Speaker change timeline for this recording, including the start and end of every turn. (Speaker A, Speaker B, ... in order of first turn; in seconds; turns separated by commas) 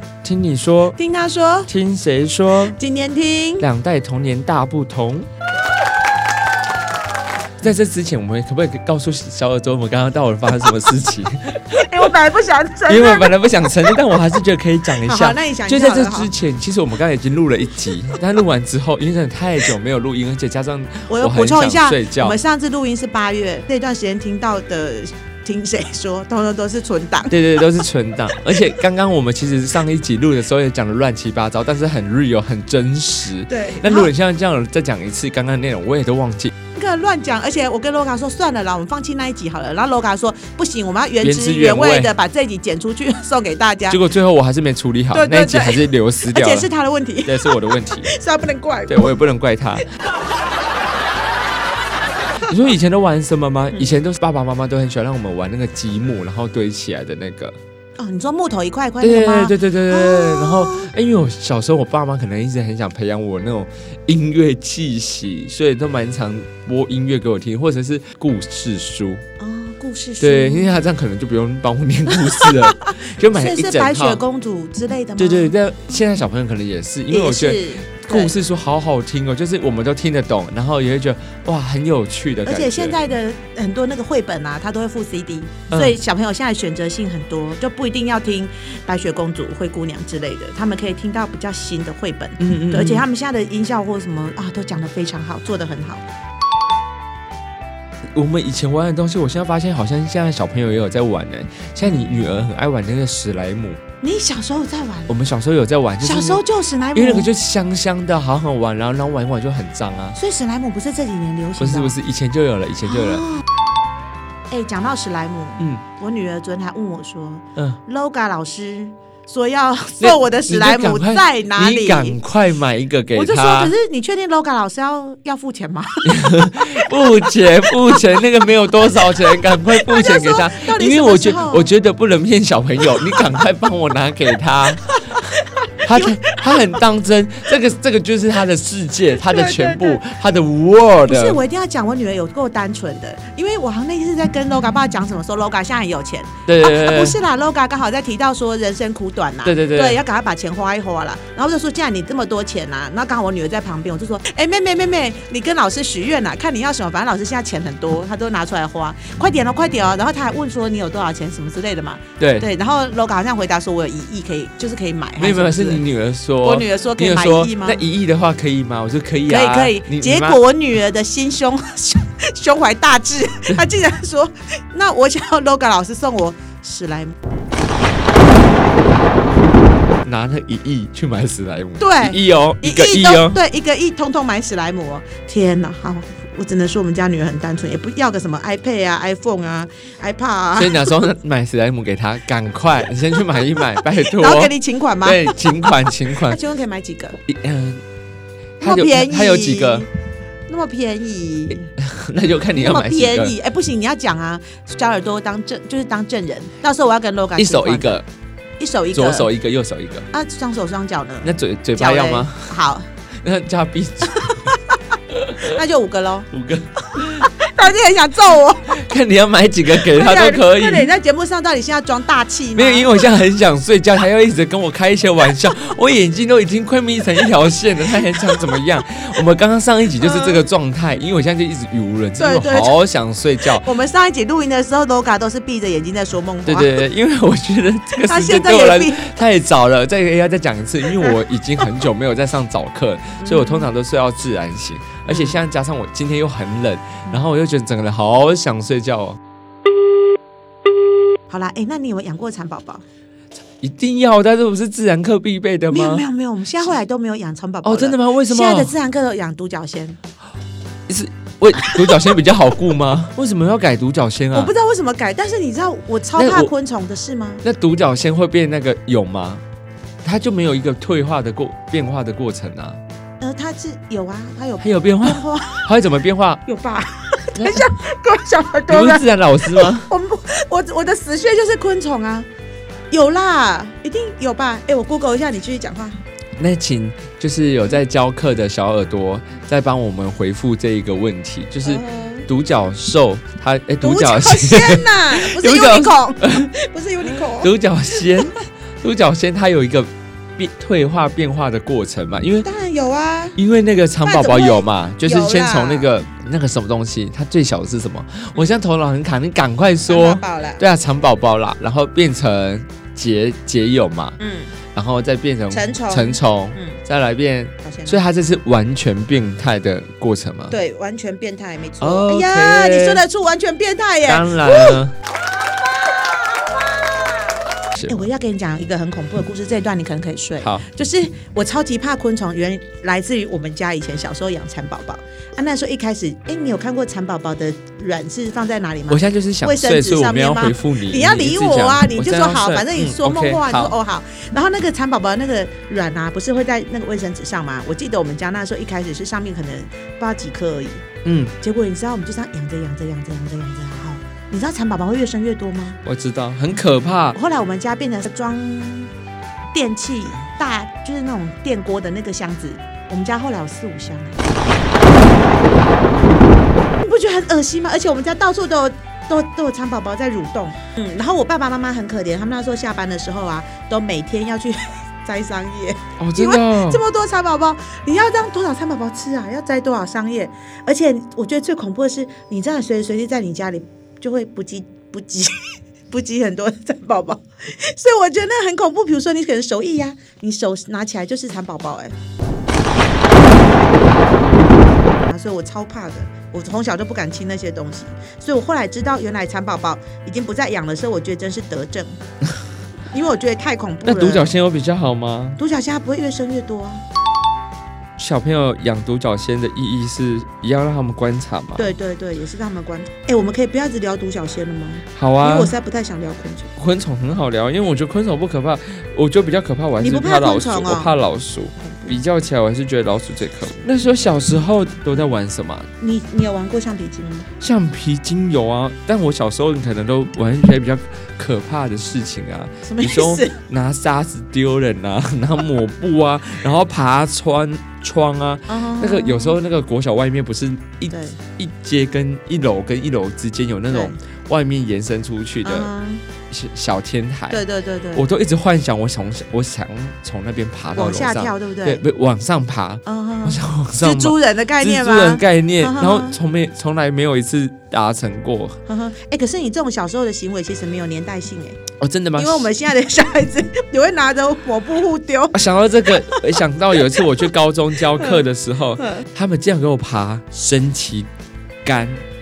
Speaker A: 0.2-1.0, Speaker B: 1.0-1.7, Speaker A: 1.7-2.8, Speaker B: 2.7-3.7, Speaker A: 3.6-5.3, Speaker A: 7.6-11.8, Speaker B: 11.7-13.3, Speaker A: 12.9-22.4, Speaker B: 15.0-16.3, Speaker B: 21.1-27.7, Speaker A: 27.3-36.5, Speaker B: 33.5-34.1, Speaker B: 36.8-44.0, Speaker A: 41.2-42.1, Speaker A: 43.9-46.7, Speaker B: 45.1-49.1, Speaker A: 47.3-48.1, Speaker A: 48.9-49.9, Speaker A: 52.4-57.6, Speaker B: 58.0-60.9, Speaker A: 59.0-69.2, Speaker B: 69.4-70.8, Speaker A: 70.2-74.2, Speaker B: 72.1-75.5, Speaker A: 75.2-83.0, Speaker B: 77.1-78.3, Speaker B: 82.5-96.0, Speaker A: 85.7-86.0, Speaker A: 92.4-93.1, Speaker A: 98.1-103.8, Speaker B: 101.8-102.3, Speaker B: 104.0-105.1, Speaker A: 105.1-106.4, Speaker B: 106.0-107.3, Speaker A: 107.0-110.2, Speaker B: 110.2-112.0, Speaker A: 111.6-113.3, Speaker B: 112.8-113.5, Speaker B: 114.5-122.2, Speaker A: 120.0-123.7, Speaker B: 123.1-127.2, Speaker A: 126.0-135.2, Speaker B: 127.9-128.2, Speaker B: 129.0-131.7, Speaker B: 134.9-136.8, Speaker A: 135.8-141.4, Speaker B: 139.2-140.0, Speaker B: 141.1-165.8, Speaker A: 146.5-147.2, Speaker A: 149.4-150.0, Speaker A: 162.2-162.5, Speaker A: 165.2-170.4, Speaker B: 166.4-167.8, Speaker B: 169.3-177.2, Speaker A: 180.0-183.4, Speaker B: 181.8-190.9, Speaker A: 190.6-196.4, Speaker B: 193.8-197.2, Speaker A: 197.3-197.8, Speaker A: 198.6-199.9, Speaker B: 198.6-199.9, Speaker B: 200.5-201.7, Speaker A: 201.8-203.3, Speaker B: 202.6-208.0, Speaker A: 207.4-208.1, Speaker B: 208.6-209.3, Speaker A: 208.9-210.1, Speaker B: 210.1-212.9, Speaker A: 211.2-212.5, Speaker A: 213.2-214.3, Speaker B: 214.1-214.8, Speaker A: 215.1-215.6, Speaker B: 215.4-216.3, Speaker A: 216.3-217.3, Speaker B: 216.9-218.8, Speaker A: 218.7-220.9, Speaker B: 219.9-223.1, Speaker A: 222.6-233.7, Speaker B: 230.0-230.4, Speaker B: 232.2-232.8, Speaker B: 233.6-236.8, Speaker A: 236.5-249.2, Speaker B: 238.0-239.0, Speaker B: 243.2-243.7, Speaker B: 245.1-245.4, Speaker B: 251.3-252.8, Speaker A: 253.6-256.1, Speaker B: 255.7-260.0, Speaker A: 257.6-258.8, Speaker A: 260.9-264.5, Speaker B: 261.6-261.9, Speaker B: 264.3-267.4, Speaker A: 266.2-266.5, Speaker A: 267.4-269.4, Speaker A: 270.0-272.8, Speaker B: 273.2-275.7, Speaker A: 274.6-276.4, Speaker B: 276.5-282.3, Speaker A: 277.4-277.7, Speaker A: 278.7-279.9, Speaker B: 282.9-286.0, Speaker A: 286.4-296.5, Speaker B: 291.6-292.3, Speaker B: 293.8-298.1, Speaker A: 297.1-302.5, Speaker B: 302.4-303.4, Speaker A: 303.4-314.2, Speaker B: 304.0-305.9, Speaker B: 309.9-310.6, Speaker B: 314.2-314.5, Speaker A: 314.7-320.5, Speaker B: 315.5-316.8, Speaker B: 317.6-318.0, Speaker B: 320.5-350.9, Speaker A: 321.8-323.1, Speaker A: 324.1-324.9, Speaker A: 327.8-328.1, Speaker A: 330.4-330.6, Speaker A: 338.9-343.8, Speaker A: 351.0-351.4, Speaker B: 351.4-355.8, Speaker A: 355.9-357.2, Speaker B: 357.1-358.9, Speaker B: 359.5-364.4, Speaker B: 366.8-391.9, Speaker A: 376.0-376.8, Speaker B: 395.0-401.9, Speaker B: 402.9-404.4, Speaker A: 403.8-405.4, Speaker B: 405.4-406.8, Speaker A: 408.0-411.7, Speaker B: 411.6-416.5, Speaker A: 414.9-415.6, Speaker A: 416.6-425.7, Speaker B: 419.8-421.0, Speaker B: 421.6-422.0, Speaker B: 425.8-427.3, Speaker A: 427.4-445.7, Speaker B: 432.6-433.4, Speaker B: 438.5-439.4, Speaker B: 440.9-441.2, Speaker B: 443.7-444.0, Speaker B: 445.4-446.0, Speaker A: 446.3-447.4, Speaker B: 447.3-448.1, Speaker A: 447.9-458.6, Speaker B: 450.8-451.8, Speaker B: 452.9-456.2, Speaker B: 458.7-461.6, Speaker A: 461.8-462.5, Speaker B: 462.2-467.1, Speaker A: 465.3-471.1, Speaker B: 468.0-468.2, Speaker B: 468.8-469.1, Speaker A: 471.6-472.0